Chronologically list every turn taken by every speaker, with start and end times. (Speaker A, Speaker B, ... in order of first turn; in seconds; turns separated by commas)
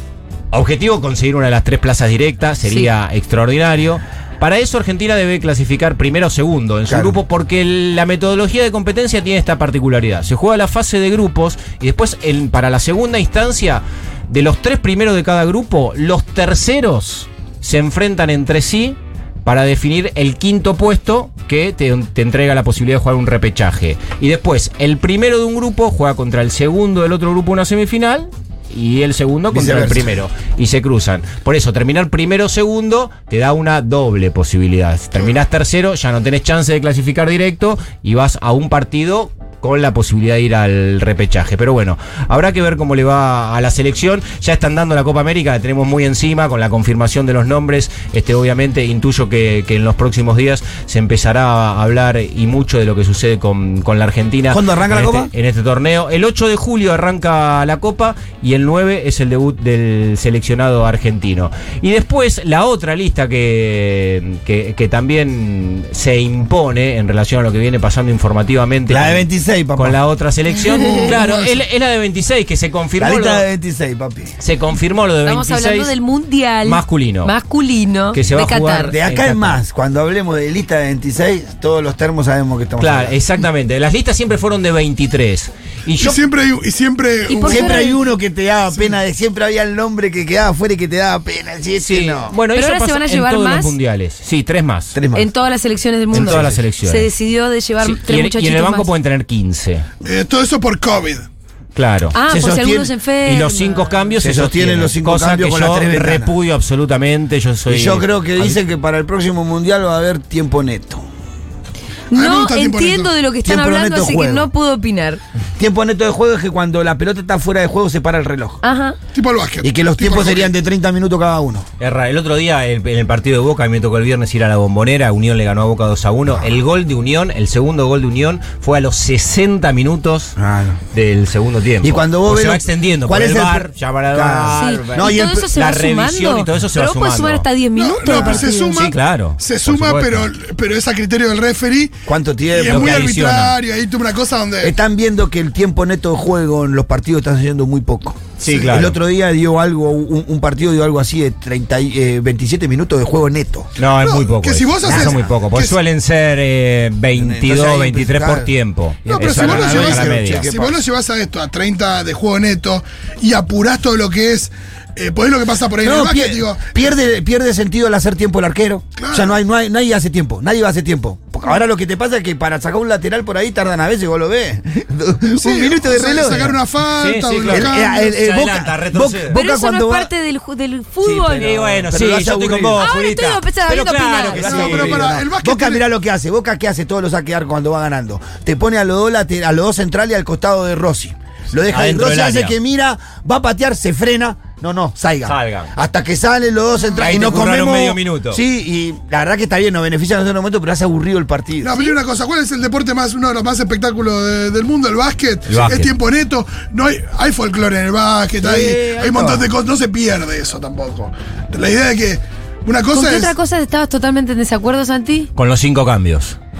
Speaker A: 0.5-73.5, Speaker B: 6.9-7.2, Speaker B: 29.5-30.2, Speaker B: 54.5-55.3, Speaker B: 68.9-70.0, Speaker C: 70.7-71.6, Speaker B: 73.0-74.3, Speaker A: 74.4-75.9, Speaker D: 75.2-78.9, Speaker A: 76.6-77.3, Speaker A: 78.1-79.6, Speaker B: 78.9-83.2, Speaker A: 82.8-86.2, Speaker C: 86.0-87.8, Speaker D: 87.3-88.0, Speaker B: 87.4-92.4, Speaker A: 91.8-95.0, Speaker D: 92.5-93.7, Speaker B: 94.9-95.3, Speaker D: 95.1-98.9, Speaker A: 96.1-97.1, Speaker B: 96.2-96.6, Speaker A: 97.8-99.8, Speaker C: 100.0-101.3, Speaker A: 101.8-102.2, Speaker D: 102.2-104.0, Speaker B: 102.3-102.9, Speaker A: 103.2-108.6, Speaker B: 104.2-106.3, Speaker B: 107.7-111.0, Speaker D: 112.1-115.2, Speaker C: 112.1-113.1, Speaker B: 113.5-114.5, Speaker B: 115.6-118.6, Speaker D: 118.6-119.0, Speaker C: 119.1-120.5, Speaker B: 119.6-121.7, Speaker A: 121.8-130.4, Speaker B: 130.4-130.8, Speaker A: 130.9-137.4, Speaker B: 131.8-135.3, Speaker D: 134.5-138.9, Speaker C: 137.8-141.9, Speaker A: 138.7-140.3, Speaker B: 142.1-143.1, Speaker C: 142.5-144.8, Speaker A: 142.6-143.6, Speaker B: 144.6-153.7, Speaker A: 148.4-149.0, Speaker A: 153.8-160.5, Speaker C: 154.0-155.8, Speaker B: 154.8-155.3, Speaker B: 157.1-158.5, Speaker C: 159.1-166.7, Speaker B: 159.2-160.8, Speaker B: 165.8-176.6, Speaker C: 169.0-169.3, Speaker C: 175.4-178.2, Speaker A: 176.9-179.4, Speaker B: 177.4-180.1, Speaker D: 179.3-181.6, Speaker B: 181.0-182.9, Speaker A: 181.3-185.2, Speaker D: 182.8-184.7, Speaker B: 184.3-201.9, Speaker C: 184.4-185.8, Speaker A: 191.7-192.6, Speaker A: 195.2-195.7, Speaker A: 197.0-198.4, Speaker C: 201.6-213.3, Speaker A: 205.5-205.9, Speaker B: 208.4-209.5, Speaker D: 212.9-215.3, Speaker A: 215.4-216.4